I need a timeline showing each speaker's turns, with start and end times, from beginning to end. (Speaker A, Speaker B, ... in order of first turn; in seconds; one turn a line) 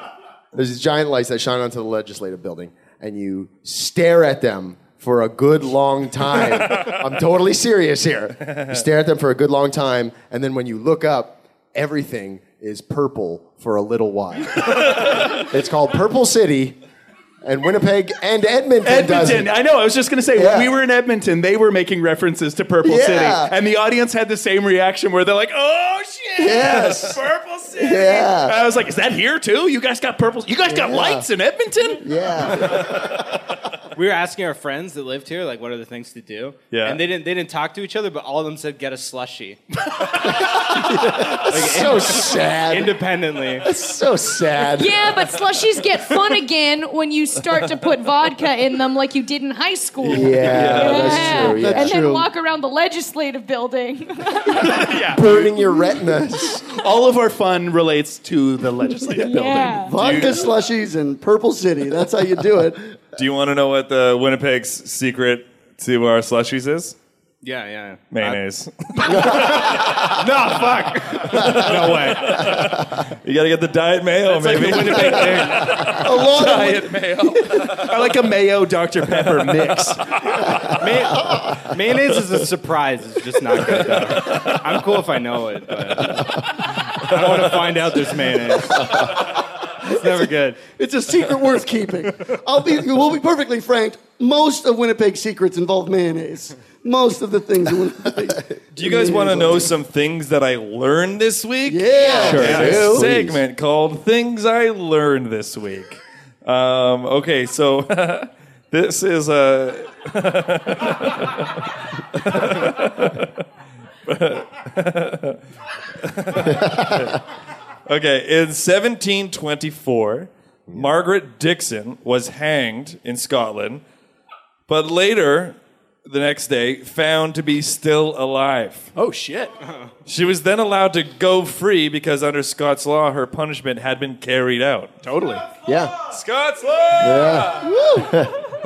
Speaker A: 0.5-16.8
Speaker A: 17.4-19.5
Speaker B: 18.8-32.0
Speaker A: 20.3-20.7
Speaker A: 22.8-23.5
Speaker A: 26.4-27.2
Speaker A: 27.7-28.6
Speaker A: 30.7-31.2
Speaker A: 32.0-32.9
Speaker C: 33.9-39.6
Speaker D: 36.7-37.0
Speaker A: 40.5-42.9
Speaker C: 41.4-43.7
Speaker A: 43.6-45.1
Speaker E: 44.6-55.0
Speaker D: 50.0-51.2
Speaker A: 50.0-52.0
Speaker F: 51.0-52.3
Speaker B: 54.7-55.3
Speaker A: 55.1-56.6
Speaker B: 56.7-60.5
Speaker F: 59.2-62.8
Speaker E: 59.2-59.9
Speaker D: 63.1-67.0
Speaker C: 67.4-68.4
Speaker D: 68.1-70.1
Speaker C: 69.2-72.5
Speaker D: 71.3-76.0
Speaker C: 74.2-76.0
Speaker F: 76.0-77.0
Speaker B: 76.3-80.0
Speaker D: 79.1-79.7
Speaker C: 80.8-86.4
Speaker D: 83.8-84.6
Speaker C: 86.9-89.2
Speaker D: 87.2-87.5
Speaker F: 89.8-90.1
Speaker C: 89.8-90.6
Speaker F: 90.7-99.7
Speaker D: 98.7-113.4
Speaker F: 101.7-103.0
Speaker A: 101.9-103.4
Speaker B: 102.2-103.1
Speaker D: 114.0-115.4
Speaker D: 116.0-117.2
Speaker D: 117.9-123.8
Speaker D: 124.7-128.9
Speaker B: 128.9-129.5
Speaker C: 129.6-129.9
Speaker D: 130.1-135.0
Speaker C: 135.1-135.3
Speaker A: 135.7-135.9
Speaker D: 136.1-137.7
Speaker A: 137.0-138.3
Speaker F: 137.6-138.1